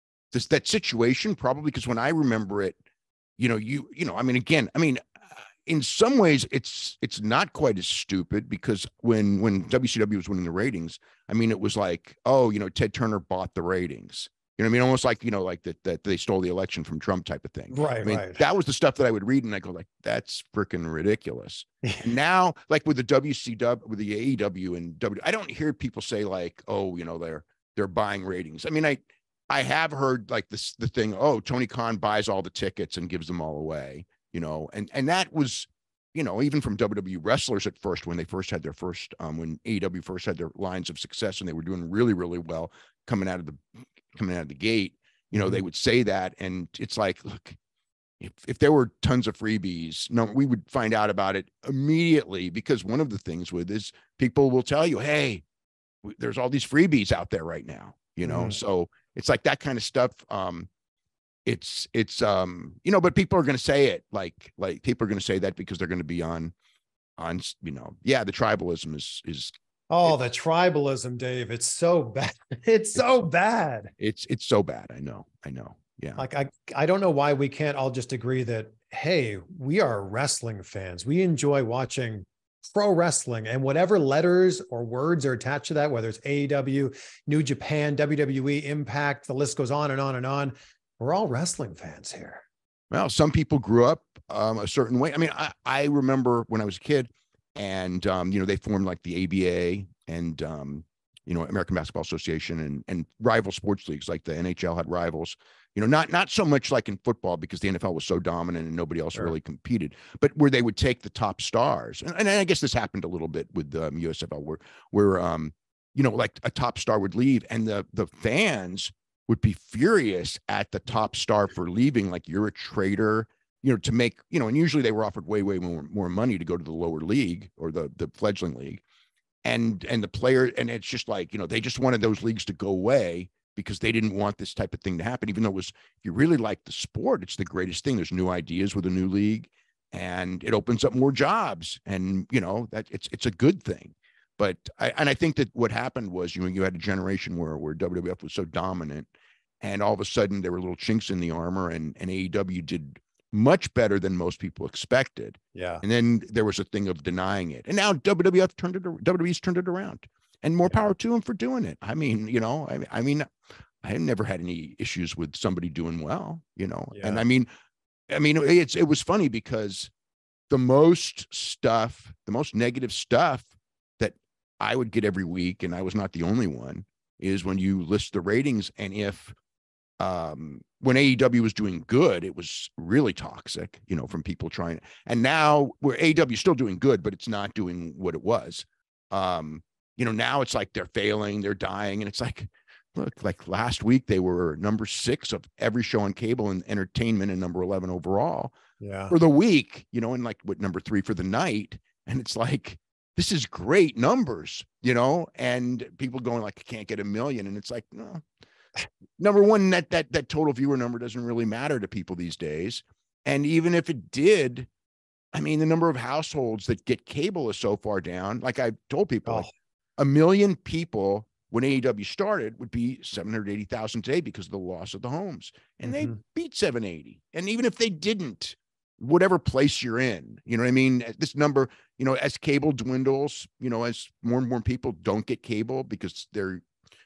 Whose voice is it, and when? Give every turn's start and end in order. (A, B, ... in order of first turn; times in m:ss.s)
0:00.3-0:02.8 A
0:03.4-0:05.1 A
0:05.6-0:43.6 A
0:17.7-0:18.4 B
0:44.1-0:47.6 A
0:48.2-0:55.4 A
0:56.0-1:00.7 A
0:58.2-0:58.6 B
1:01.5-1:06.5 A
1:07.2-1:09.5 A
1:09.9-1:13.9 B
1:14.0-1:16.2 A
1:16.2-1:32.4 B
1:32.9-2:08.8 A
2:09.4-2:29.1 A
2:29.6-2:43.3 A
2:35.5-2:35.8 B
2:43.8-2:47.5 A
2:46.9-2:47.2 B
2:48.1-2:49.9 A
2:50.5-2:59.4 A
3:00.0-3:18.5 A
3:18.8-3:19.2 B
3:19.1-3:28.2 A
3:29.2-3:34.7 A
3:35.3-3:39.5 A
3:40.0-3:56.6 A
3:45.9-3:46.2 B